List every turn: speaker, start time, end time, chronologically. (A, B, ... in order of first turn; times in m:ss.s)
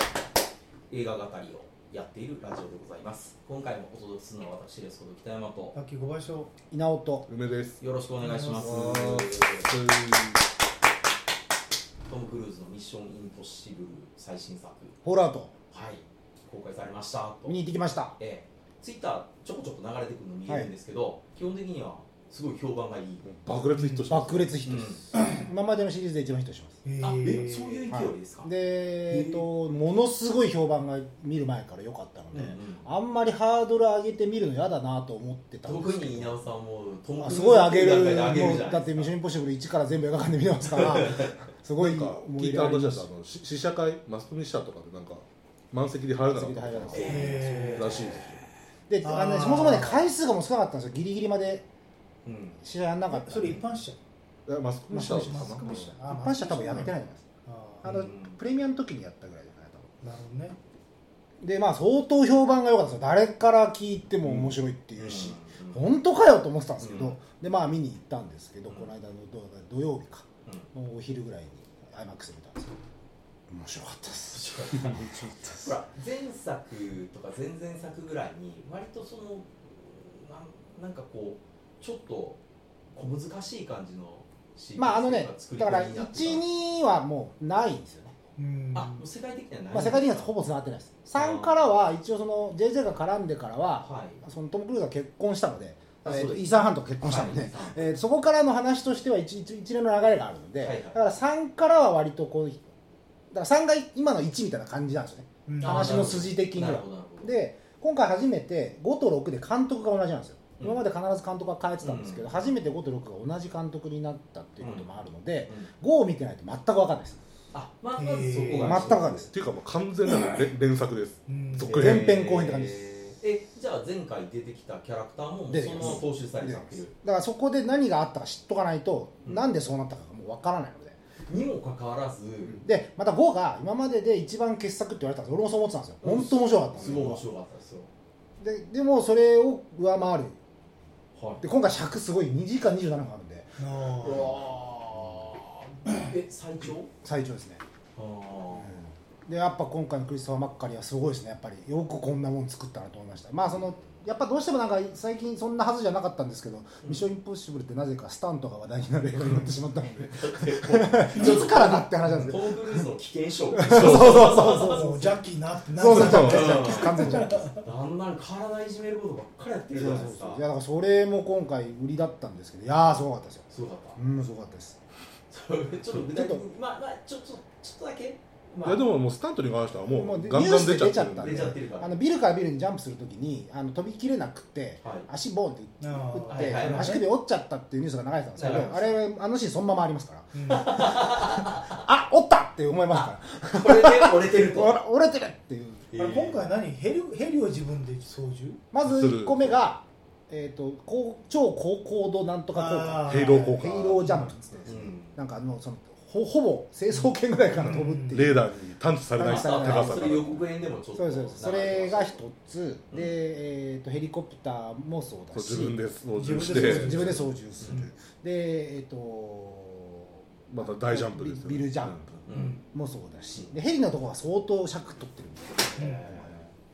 0:00.9-0:05.7 A
0:05.7-0:06.5 B
0:06.7-0:07.3 C
0:07.3-0:07.8 D
0:07.8-0:09.7 A
0:08.2-0:08.7 B
0:08.5-0:10.4 D
0:12.1-0:14.9 A
0:15.0-0:15.5 C
0:15.7-0:17.6 A
0:17.4-0:18.1 C
0:18.2-0:23.3 A
0:23.2-0:24.7 D
0:23.7-0:24.1 B
0:24.1-0:26.8 C
0:24.6-0:25.0 A
0:26.8-0:27.8 B
0:27.0-0:28.5 A
0:27.9-0:36.4 C
0:29.1-0:29.4 A
0:32.3-0:32.8 A
0:35.6-0:39.1 A
0:37.2-0:43.0 C
0:40.7-0:41.4 A
0:41.8-0:47.1 D
0:46.3-0:47.7 C
0:46.9-0:48.4 A
0:47.0-0:47.9 B
0:47.7-0:48.4 D
0:48.9-0:51.6 C
0:49.0-0:50.1 B
0:52.2-0:52.6 A
0:52.6-0:53.6 C
0:53.1-0:54.0 B
0:54.5-0:55.8 D
0:54.9-0:57.2 C
0:54.9-0:56.9 B
0:57.4-0:57.9 B
0:57.8-0:59.9 C
0:57.8-0:58.4 A
1:00.0-1:00.6 B
1:01.4-1:12.7 C
1:04.2-1:04.5 D
1:05.0-1:05.8 A
1:06.8-1:07.2 A
1:13.5-1:15.7 C
1:14.3-1:22.4 A
1:22.9-1:26.4 A
1:24.8-1:28.1 C
1:28.4-1:29.0 B
1:28.7-1:30.3 A
1:29.7-1:42.7 C
1:31.2-1:31.7 A
1:33.8-1:34.2 A
1:36.0-1:37.8 A
1:40.6-1:41.0 A
1:43.3-1:57.2 C
1:45.5-1:46.1 B
1:45.6-1:47.3 A
1:50.6-1:50.8 A
1:51.8-1:52.5 A
1:54.6-1:54.9 A
1:57.5-1:59.3 A
1:58.0-1:58.8 B
1:58.5-1:59.3 C
1:58.8-2:02.1 D
2:01.3-2:01.7 B
2:01.6-2:06.9 A
2:01.7-2:02.8 C
2:05.5-2:11.0 C
2:11.3-2:12.6 A
2:12.6-2:17.2 C
2:16.0-2:17.9 A
2:18.4-2:20.4 C
2:21.2-2:21.4 A
2:21.4-2:23.5 C
2:23.6-2:24.3 B
2:24.0-2:26.9 A
2:27.0-2:27.6 C
2:28.0-2:28.8 A
2:28.5-2:42.8 C
2:40.0-2:45.1 A
2:43.5-2:45.1 C
2:43.9-2:47.6 B
2:45.8-2:47.5 C
2:45.9-2:50.4 A
2:49.7-2:53.4 C
2:53.5-2:54.0 A
2:54.0-2:54.8 C
2:55.3-2:58.8 A
2:56.1-2:56.4 C
2:58.6-3:01.5 D
2:59.9-3:15.8 C
3:01.2-3:01.9 A
3:05.8-3:07.0 B
3:06.2-3:07.0 A
3:08.4-3:09.0 A
3:10.3-3:10.8 B
3:10.5-3:11.8 A
3:13.0-3:14.8 A
3:15.9-3:16.4 A
3:16.0-3:18.6 B
3:18.7-3:28.5 C
3:18.8-3:19.6 D
3:22.5-3:24.3 B
3:23.0-3:24.1 D
3:24.6-3:25.2 A
3:27.5-3:28.2 B
3:28.1-3:30.4 D
3:29.2-3:30.2 C
3:29.2-3:32.2 A
3:31.0-3:35.8 C
3:35.3-3:37.3 D
3:36.2-3:37.8 B
3:36.4-3:46.3 C
3:40.5-3:42.2 D
3:42.2-3:42.6 A
3:42.3-3:42.6 B
3:45.8-3:46.2 B
3:45.8-3:46.4 A